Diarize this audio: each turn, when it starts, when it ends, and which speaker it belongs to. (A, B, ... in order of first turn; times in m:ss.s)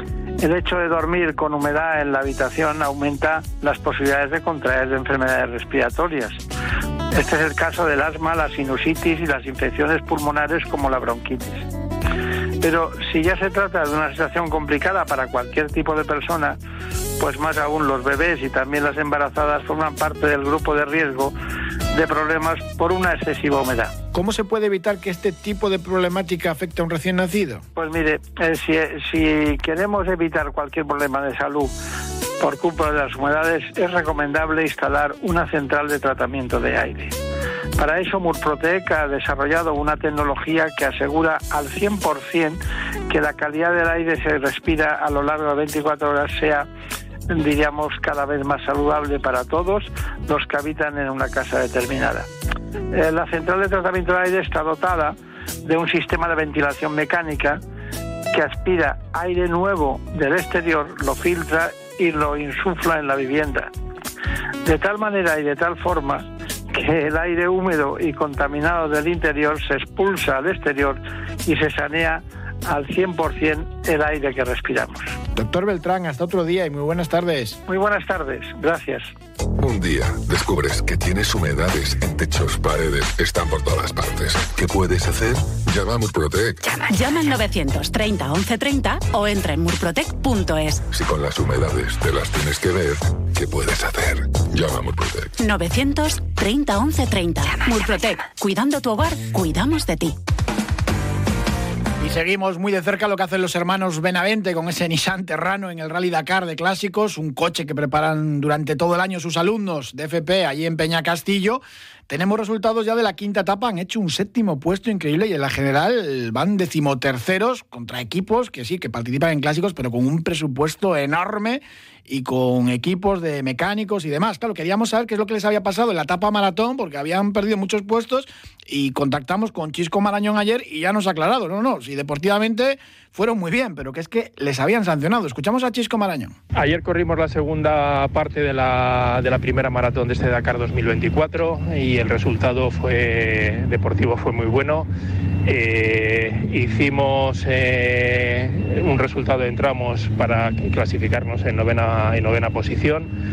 0:00.4-0:06.4 A
0:07.1-0:11.6 A
0:12.6-0:16.6 A
0:17.2-0:21.3 A
0:21.9-0:23.9 A
0:24.1-0:27.6 B
0:27.7-0:31.7 A
0:32.4-0:37.2 A
0:37.8-0:46.7 A
0:47.3-0:52.3 A
0:52.9-0:57.6 A
0:58.3-1:03.7 A
1:04.6-1:15.1 A
1:15.3-1:17.6 B
1:17.7-1:19.1 A
1:19.6-1:26.8 C
1:26.8-1:30.8 D
1:30.9-1:35.3 C
1:35.4-1:40.2 D
1:42.0-2:16.3 B
2:16.5-2:24.9 E
2:25.4-2:33.1 E